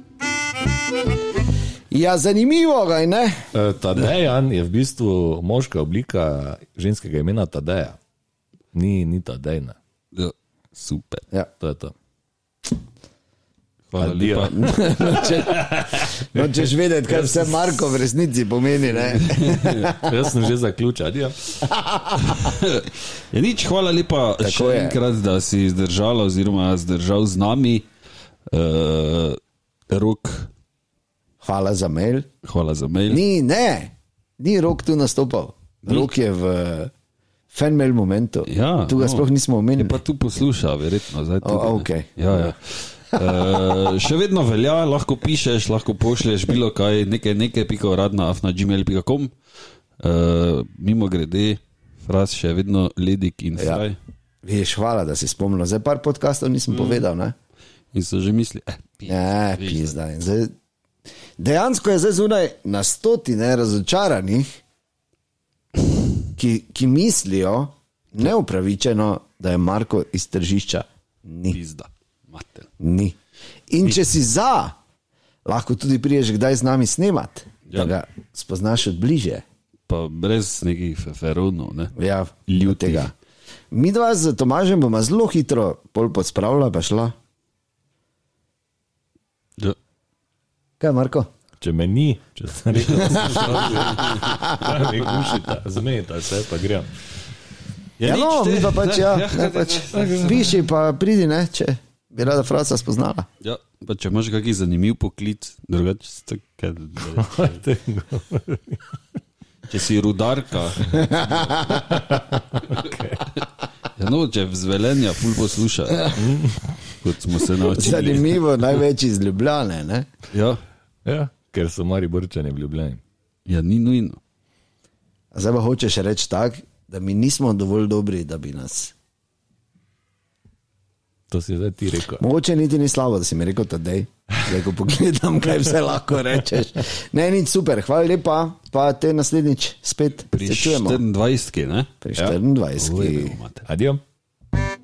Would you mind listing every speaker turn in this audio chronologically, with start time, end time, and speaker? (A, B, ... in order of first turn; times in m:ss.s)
0:01.9-0:03.5 A
0:03.5-0:08.0 B
0:08.7-0:09.8 B
0:10.1-0:11.2 C
0:11.6-0:11.9 B
0:13.9-0:16.6 C
0:14.0-0:14.8 B
0:14.5-0:20.2 A
0:17.1-0:18.0 C
0:19.0-0:20.0 C
0:19.9-0:21.4 B
0:21.6-0:22.6 A
0:22.2-0:27.9 C
0:24.4-0:25.0 A
0:28.5-0:30.5 C
0:31.4-0:32.3 A
0:32.4-0:33.2 C
0:33.1-0:36.9 A
0:35.8-0:36.1 C
0:37.5-0:40.0 A
0:38.5-0:49.3 C
0:41.4-0:42.6 A
0:43.1-0:43.7 A
0:50.0-0:54.0 C
0:53.6-0:53.8 A
0:54.4-0:57.3 A
0:56.7-0:57.0 C
0:57.9-1:00.0 C
0:59.1-1:00.5 A
1:01.4-1:04.6 A
1:06.4-1:11.6 A
1:11.5-1:12.7 C
1:12.8-1:13.2 A
1:13.7-1:14.8 A
1:15.5-1:19.4 A
1:19.9-1:21.9 C
1:22.0-1:23.1 A
1:22.5-1:23.1 C
1:23.7-1:27.1 A
1:30.8-1:31.3 A
1:31.6-1:36.9 B
1:33.0-1:34.4 C
1:33.0-1:35.1 A
1:38.0-1:40.6 C
1:38.0-1:43.3 A
1:40.0-1:40.4 B
1:43.4-1:47.6 C
1:47.2-1:49.0 B
1:49.7-1:51.8 C
1:50.9-1:51.8 A
1:51.8-1:53.2 B
1:52.6-1:53.4 C
1:54.0-1:56.2 C
1:56.2-1:56.8 B
1:57.0-1:58.4 C
1:57.7-2:00.1 A
2:00.3-2:00.6 C
2:01.0-2:03.0 B
2:03.5-2:04.2 C
2:05.3-2:08.9 A
2:11.3-2:12.2 B
2:12.2-2:21.0 A
2:20.3-2:21.9 C
2:22.0-2:23.4 A
2:22.8-2:23.7 C
2:23.7-2:24.0 B